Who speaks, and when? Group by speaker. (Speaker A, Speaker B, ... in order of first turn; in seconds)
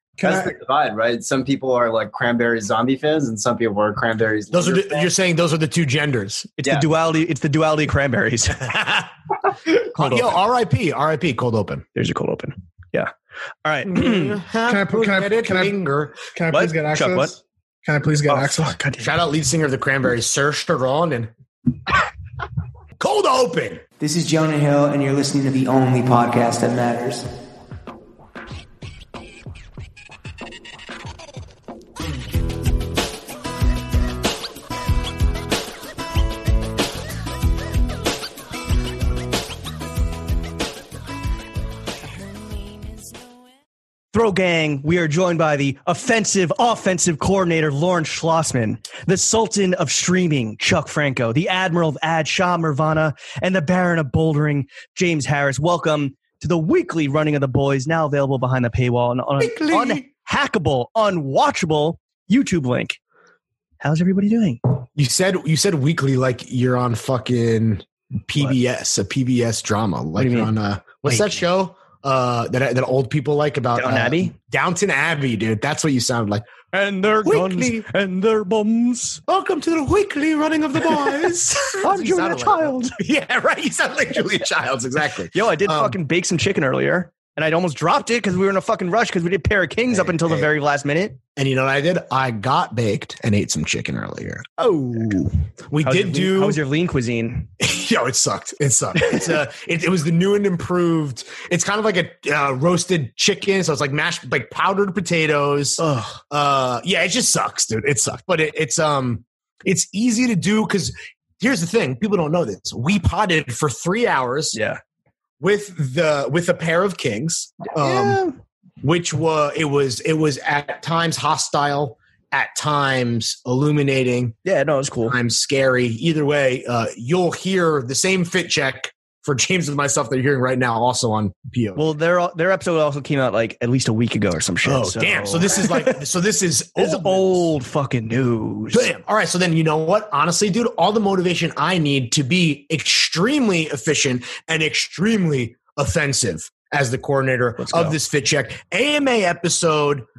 Speaker A: 0.2-0.5, 14.7-15.7, 16.3-18.8
Speaker B: 0.2-5.1
Speaker C: 4.5-6.5, 8.6-9.1, 9.9-11.8, 13.8-16.2, 19.0-21.3, 23.0-23.8, 59.4-60.0, 65.0-76.5, 77.2-77.8, 79.3-86.0, 89.9-90.5, 91.3-94.4, 95.7-96.6, 97.6-114.6, 115.4-118.2, 118.8-124.3, 125.0-131.9, 134.6-137.5, 138.7-150.0
Speaker D: 6.6-8.7, 9.9-10.4, 11.9-13.1, 13.6-14.3, 16.5-17.3, 18.3-19.1, 44.1-63.0, 63.8-64.6, 70.2-70.5, 71.0-71.3, 73.8-74.3, 76.7-79.2, 81.8-83.0, 85.3-91.2, 94.6-95.3, 95.8-97.5, 99.0-99.3, 105.8-106.2, 114.5-114.8, 117.7-118.3, 124.4-125.1, 131.8-135.9, 136.8-138.9, 147.6-147.9
Speaker E: 24.0-27.2